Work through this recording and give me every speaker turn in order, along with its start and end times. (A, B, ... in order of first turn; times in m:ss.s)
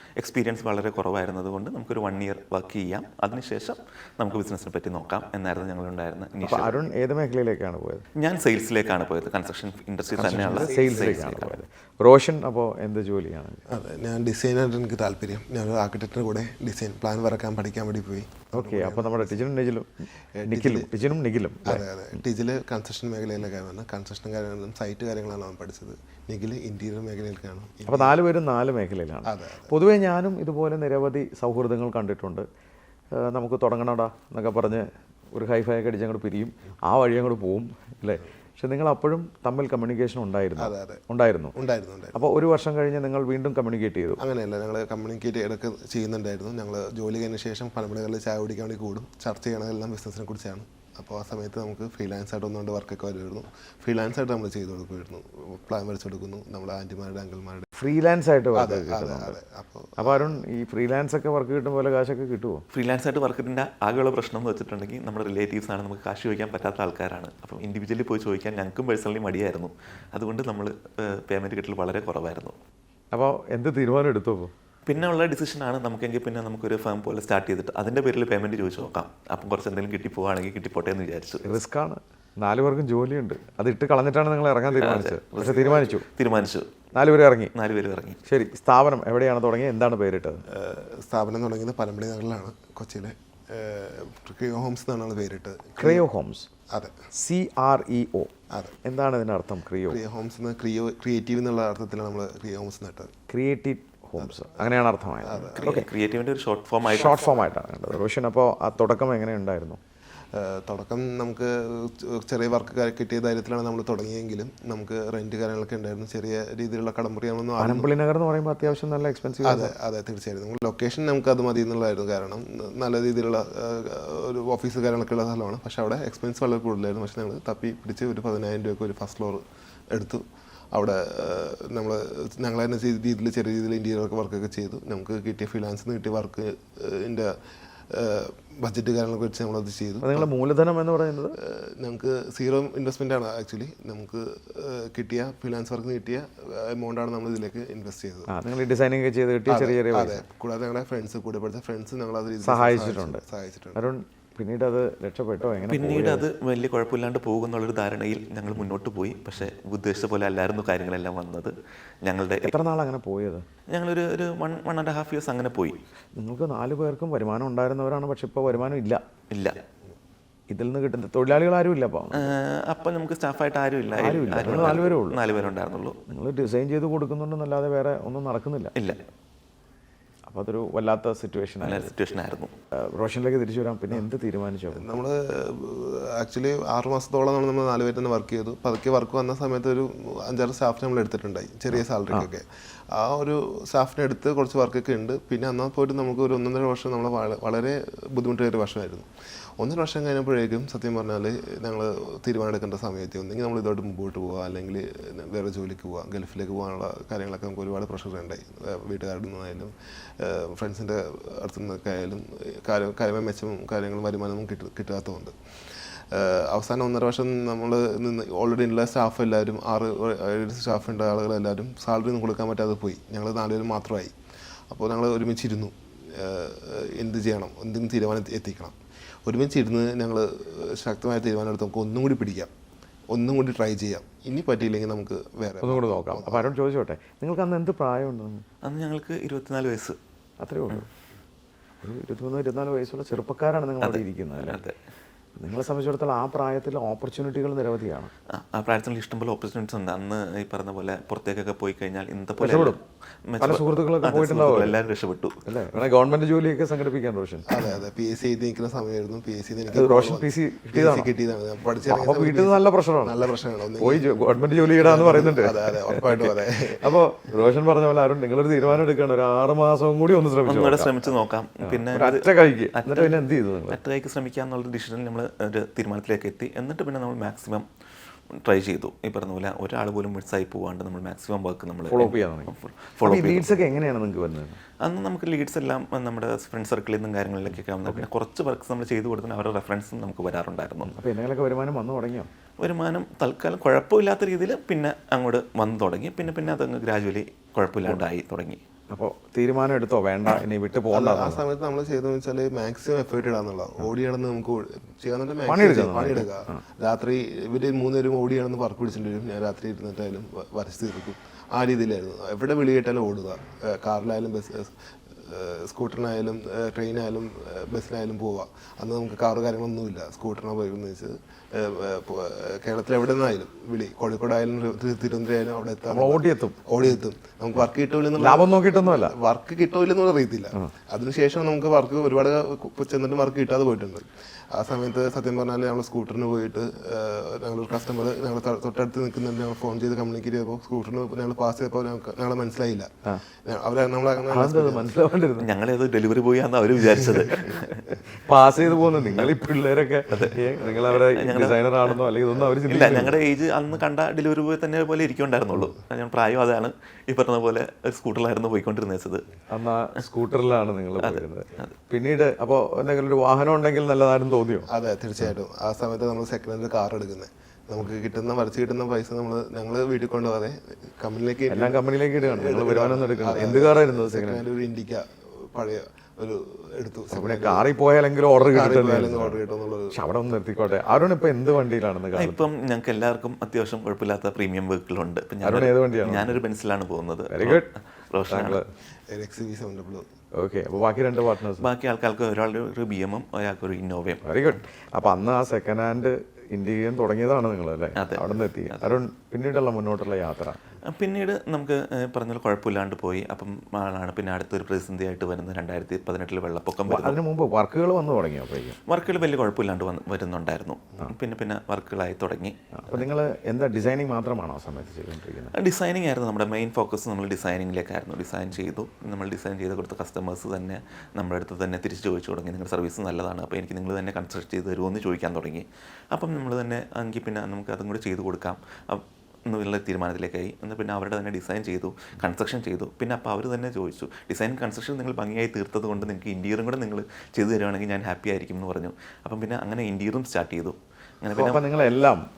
0:00.2-0:06.8 A
0:06.4-0:08.0 B
0:08.2-0:11.6 A
0:10.2-0:13.6 B
0:10.2-0:11.4 C
0:13.7-0:19.5 C
0:18.5-0:21.8 B
0:20.4-0:20.9 C
0:21.6-0:28.2 C
0:27.9-0:32.4 B
0:29.2-0:29.7 C
0:33.1-0:41.6 B
0:40.6-0:41.0 C
0:41.6-0:42.2 C
0:42.2-0:44.2 B
0:44.2-0:57.7 C
0:57.8-0:59.4 B
0:58.6-1:00.3 C
1:00.0-1:02.6 B
1:02.7-1:12.6 A
1:13.1-1:14.5 B
1:14.9-1:21.6 A
1:21.4-1:26.0 B
1:24.8-1:26.7 A
1:26.9-1:27.5 B
1:27.6-1:28.2 A
1:28.3-1:30.4 B
1:30.5-1:36.1 C
1:35.8-1:36.5 B
1:36.7-1:37.0 C
1:37.1-1:40.0 B
1:38.5-1:38.8 C
1:39.9-1:43.1 C
1:43.3-1:45.9 B
1:45.2-1:45.8 C
1:45.6-1:47.3 A
1:46.9-1:49.8 B
1:50.3-1:57.9 C
1:57.6-1:59.7 B
1:59.4-2:17.4 C
2:17.9-2:20.3 C
2:20.0-2:21.4 B
2:21.4-2:28.3 C
2:28.3-2:30.2 B
2:29.5-2:33.8 C
2:32.4-2:33.2 B
2:33.8-2:36.2 B
2:35.7-2:42.5 A
2:42.4-2:43.5 B
2:43.7-2:45.8 A
2:46.2-2:49.0 B
2:49.3-2:49.6 A
2:50.5-2:52.3 B
2:52.1-2:56.0 A
2:54.0-2:55.2 B
2:56.1-2:58.8 B
2:58.8-2:59.1 A
3:00.3-3:01.9 B
3:01.6-3:02.5 A
3:02.7-3:04.9 B
3:04.7-3:35.4 C
3:36.0-3:44.1 C
3:44.7-3:52.5 C
3:53.1-3:56.5 C
3:55.6-3:58.4 B
3:58.6-4:00.0 A
4:00.4-4:00.9 B
4:01.8-4:04.6 B
4:03.8-4:04.8 A
4:05.4-4:08.1 B
4:08.3-4:15.4 A
4:12.4-4:12.8 B
4:13.4-4:14.8 B
4:15.5-4:17.6 B
4:17.5-4:27.0 C
4:19.7-4:21.1 B
4:21.9-4:23.3 B
4:23.8-4:31.1 B
4:30.5-4:37.7 A
4:31.6-4:33.8 B
4:38.3-4:43.6 A
4:41.9-4:44.6 B
4:44.8-4:51.0 A
4:50.9-4:52.3 B
4:52.6-4:58.6 A
4:58.9-5:01.4 B
5:00.9-5:44.9 C
5:05.5-5:06.6 B
5:25.9-5:26.6 B
5:28.2-5:29.2 B
5:44.3-5:45.5 B
5:45.4-5:48.0 A
5:48.1-5:53.2 B
5:50.1-5:52.0 A
5:52.7-5:59.3 A
5:59.5-6:04.7 B
6:01.0-6:01.7 A
6:04.7-6:17.7 C
6:11.5-6:14.4 B
6:17.1-6:19.4 B
6:18.4-6:20.0 C
6:19.9-6:22.4 B
6:22.2-6:28.6 A
6:25.4-6:26.4 B
6:27.3-6:27.7 B
6:28.3-6:28.6 B
6:29.1-6:30.1 C
6:30.4-6:31.7 B
6:31.6-6:34.5 A
6:34.2-6:40.6 B
6:38.0-6:39.0 A
6:40.8-6:47.2 A
6:46.9-6:48.8 B
6:48.9-6:53.0 A
6:52.8-6:55.6 B
6:55.6-7:21.6 A
7:21.3-7:22.3 B